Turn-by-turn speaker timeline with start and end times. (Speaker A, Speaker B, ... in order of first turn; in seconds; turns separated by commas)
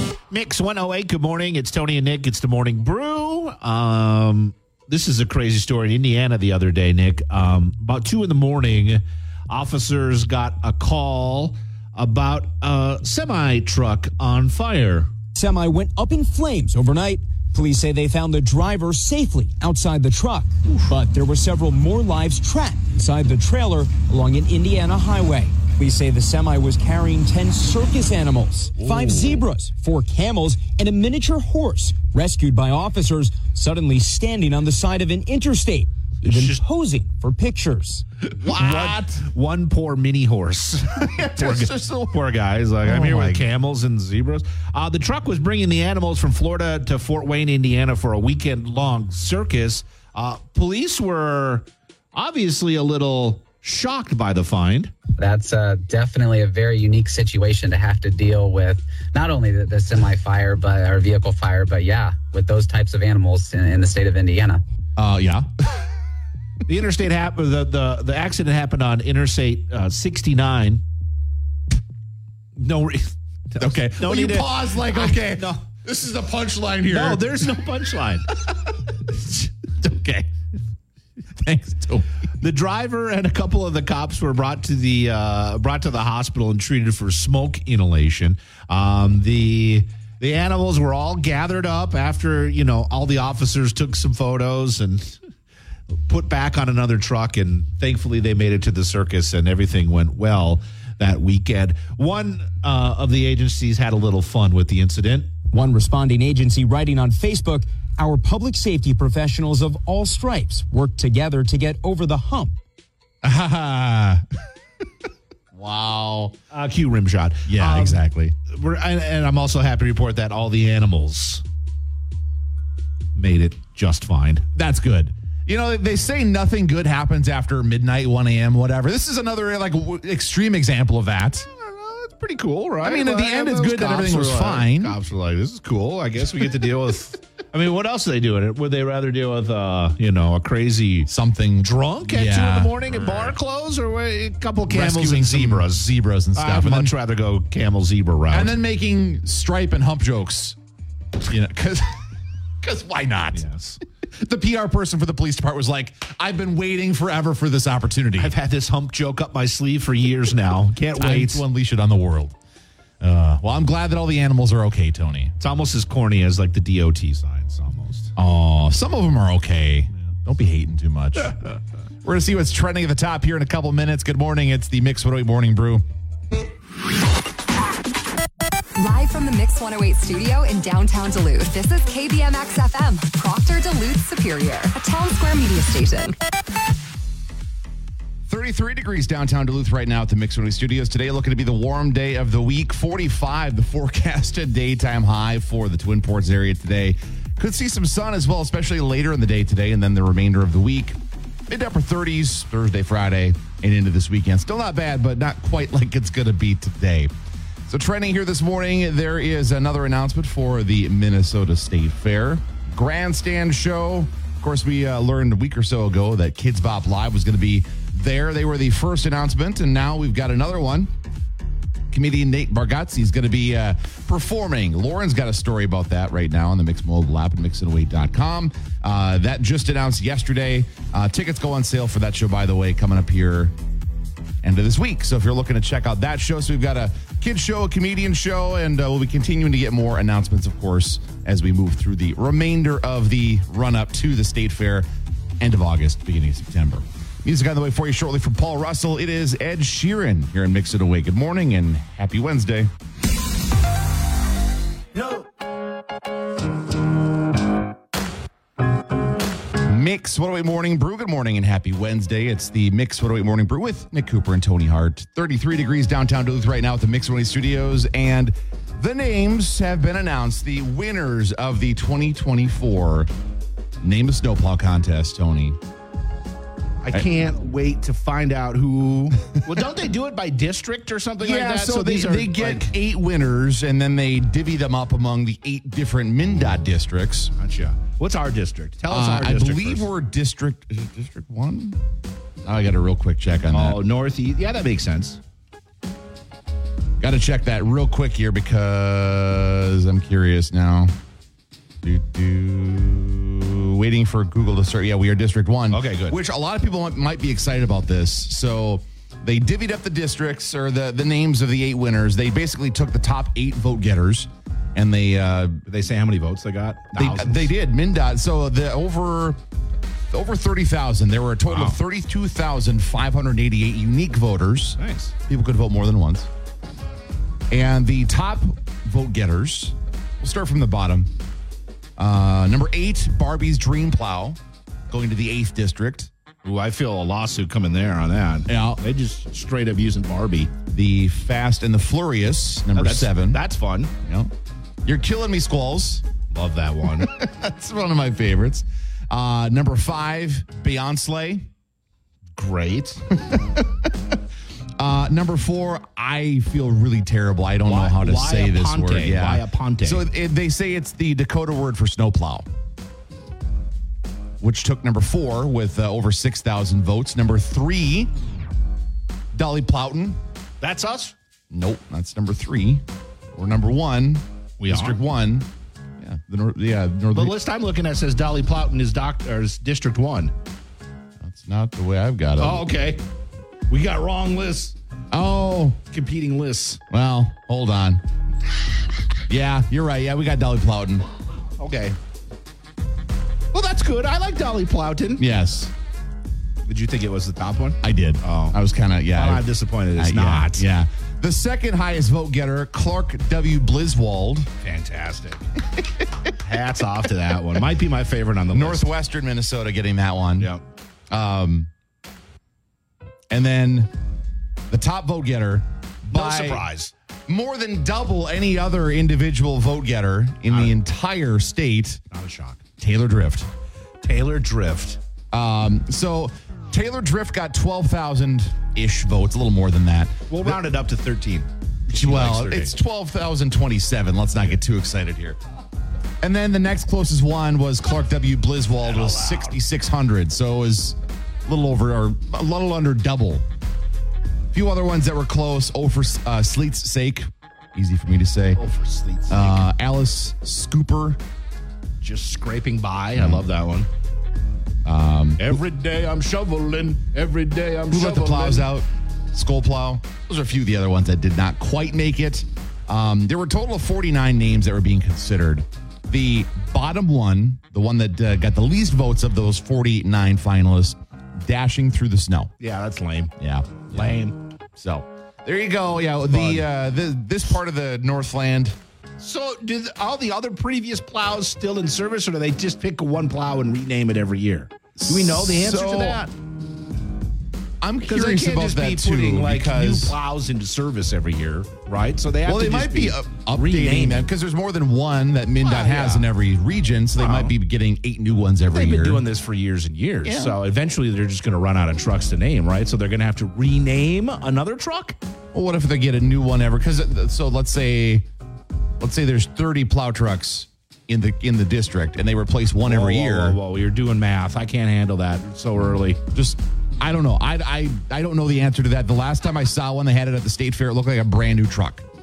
Speaker A: 0.3-15.1, Speaker B: 15.3-38.0, Speaker C: 28.8-29.4, Speaker A: 36.2-36.6, Speaker A: 38.2-54.9, Speaker C: 38.4-39.2, Speaker C: 41.0-42.2, Speaker C: 42.8-43.5, Speaker D: 55.2-64.6, Speaker C: 65.0-65.8, Speaker A: 66.7-70.8, Speaker A: 72.5-75.6, Speaker C: 73.6-77.6, Speaker A: 76.9-78.3, Speaker C: 79.1-80.3, Speaker C: 81.3-82.0, Speaker A: 82.4-95.2, Speaker A: 96.0-105.3, Speaker B: 105.5-112.5, Speaker C: 113.2-114.2, Speaker C: 115.5-116.4, Speaker A: 116.5-121.4, Speaker C: 117.5-118.3, Speaker A: 123.2-124.4, Speaker C: 124.5-131.5, Speaker A: 131.5-148.5, Speaker C: 132.8-135.0, Speaker C: 141.1-143.3, Speaker C: 144.7-146.9, Speaker C: 148.3-150.6, Speaker C: 151.2-152.0, Speaker C: 152.6-153.4, Speaker A: 153.3-153.8, Speaker C: 154.0-158.3, Speaker A: 158.2-161.4, Speaker C: 160.9-162.3, Speaker C: 163.0-165.3, Speaker A: 165.4-168.1, Speaker C: 168.2-175.8, Speaker E: 178.8-186.2, Speaker C: 188.3-207.1, Speaker C: 207.7-220.9, Speaker C: 221.9-233.5, Speaker C: 234.4-244.9, Speaker C: 245.4-252.7, Speaker C: 259.6-273.1, Speaker C: 273.8-275.6, Speaker A: 276.8-282.7, Speaker C: 281.2-287.3, Speaker A: 287.4-289.9, Speaker C: 288.9-291.8, Speaker C: 292.4-293.8, Speaker A: 293.5-295.2, Speaker C: 297.0-300.9, Speaker C: 301.8-315.6, Speaker A: 305.7-306.2, Speaker A: 315.6-317.5, Speaker C: 316.9-319.4, Speaker C: 320.1-326.3, Speaker A: 321.5-321.8, Speaker A: 324.8-325.1, Speaker C: 327.5-331.1, Speaker C: 332.0-334.4, Speaker C: 334.9-336.1, Speaker A: 336.4-340.5, Speaker C: 338.5-338.8, Speaker C: 340.7-343.4, Speaker A: 342.7-343.9, Speaker C: 344.0-344.3, Speaker C: 344.8-346.0, Speaker A: 346.3-347.1, Speaker C: 347.0-351.5, Speaker A: 352.4-353.1, Speaker C: 353.3-353.9, Speaker C: 354.8-362.4, Speaker A: 357.6-360.0, Speaker C: 364.4-368.1, Speaker C: 369.3-370.2, Speaker A: 370.6-371.1, Speaker C: 371.5-372.8, Speaker C: 373.3-375.5, Speaker A: 374.6-375.0, Speaker C: 376.0-377.4, Speaker A: 377.1-380.3, Speaker C: 381.2-382.6, Speaker A: 382.4-383.0, Speaker A: 383.7-384.8, Speaker C: 385.1-385.8, Speaker A: 385.9-386.8, Speaker C: 386.9-388.0, Speaker C: 389.3-391.0, Speaker A: 391.6-392.0, Speaker A: 393.5-395.2, Speaker C: 395.2-395.7, Speaker A: 396.6-398.6, Speaker C: 397.8-404.5, Speaker A: 399.1-400.6, Speaker A: 404.6-405.5, Speaker A: 406.4-408.9, Speaker C: 408.5-410.5, Speaker A: 410.4-410.6, Speaker C: 411.1-411.7, Speaker C: 413.3-413.9, Speaker C: 414.7-416.6, Speaker A: 416.1-416.9, Speaker C: 417.3-422.0, Speaker A: 420.5-420.7, Speaker A: 422.1-422.6, Speaker C: 422.8-423.5, Speaker A: 424.0-425.0, Speaker C: 425.3-430.6, Speaker A: 430.3-432.7, Speaker C: 431.9-435.4, Speaker C: 436.2-443.4, Speaker A: 438.8-439.6, Speaker C: 444.5-448.6, Speaker A: 448.5-449.7, Speaker C: 449.3-451.2, Speaker A: 452.0-453.9, Speaker C: 453.1-453.4, Speaker C: 454.8-455.6, Speaker A: 455.4-458.7, Speaker C: 457.9-472.5, Speaker A: 472.6-473.3, Speaker C: 473.4-474.2, Speaker A: 473.9-474.4, Speaker C: 474.7-478.8, Speaker A: 476.3-476.6, Speaker A: 479.2-486.3, Speaker C: 485.0-486.3, Speaker C: 487.8-490.1, Speaker A: 488.0-494.3, Speaker C: 492.4-499.2, Speaker A: 495.6-496.3, Speaker A: 497.2-497.5, Speaker A: 498.7-505.2, Speaker C: 500.2-500.6, Speaker C: 505.5-508.3, Speaker C: 509.0-513.6, Speaker A: 512.8-516.2, Speaker C: 516.3-522.0